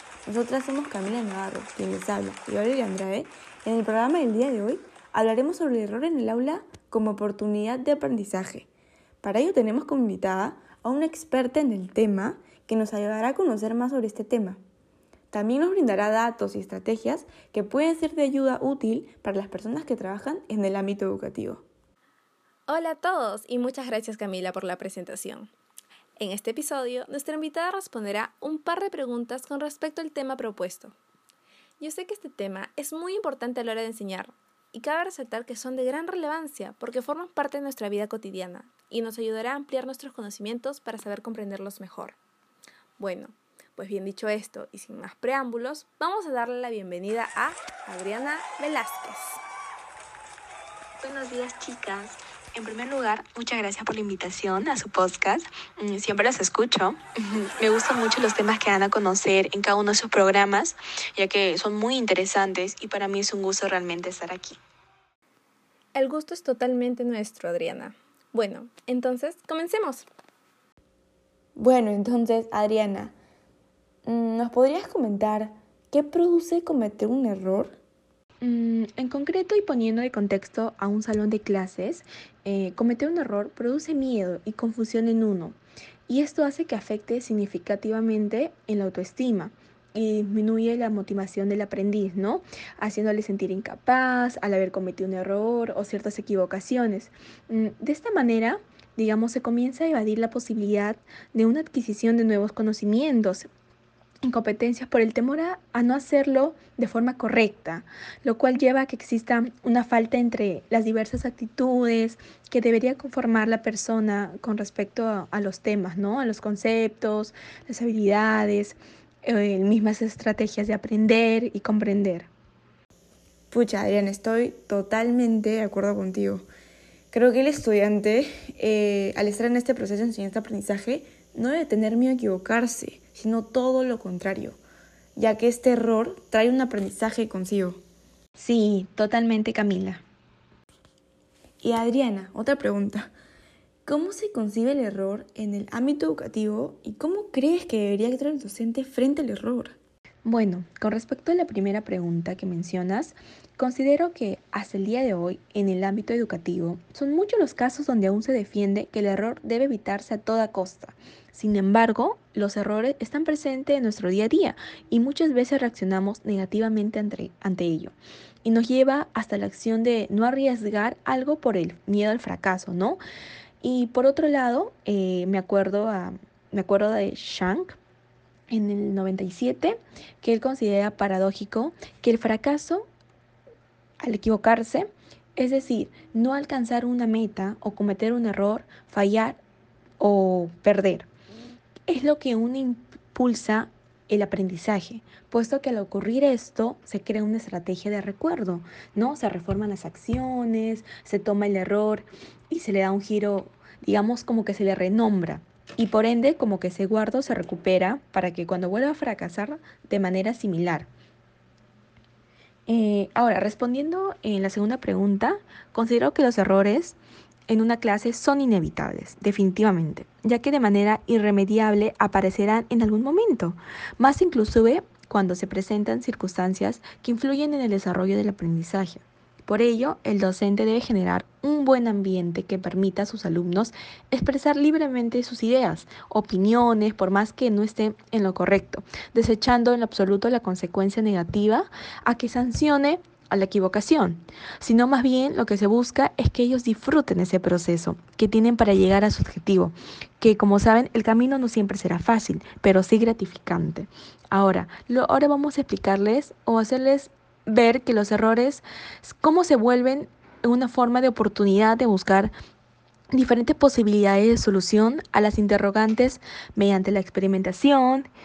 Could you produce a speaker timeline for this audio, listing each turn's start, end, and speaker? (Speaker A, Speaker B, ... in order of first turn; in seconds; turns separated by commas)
Speaker A: 0.4-8.7, Speaker A: 9.2-14.6, Speaker A: 15.3-21.6, Speaker B: 22.7-25.5, Speaker B: 26.2-30.9, Speaker B: 31.8-42.2, Speaker B: 43.0-49.4, Speaker C: 51.0-64.6, Speaker B: 66.0-70.1, Speaker A: 71.6-73.1, Speaker A: 74.1-77.8, Speaker C: 78.4-85.6, Speaker C: 86.1-103.5, Speaker C: 104.2-122.3, Speaker A: 123.5-126.5, Speaker A: 127.1-134.6, Speaker A: 135.2-137.8, Speaker C: 138.4-140.0, Speaker A: 141.6-143.1, Speaker A: 143.9-149.8, Speaker C: 150.2-173.0, Speaker C: 173.6-177.8, Speaker C: 178.5-182.9, Speaker C: 184.0-189.4, Speaker C: 190.0-191.1, Speaker C: 191.9-210.9, Speaker C: 212.7-217.0, Speaker C: 217.5-262.3, Speaker C: 263.1-268.1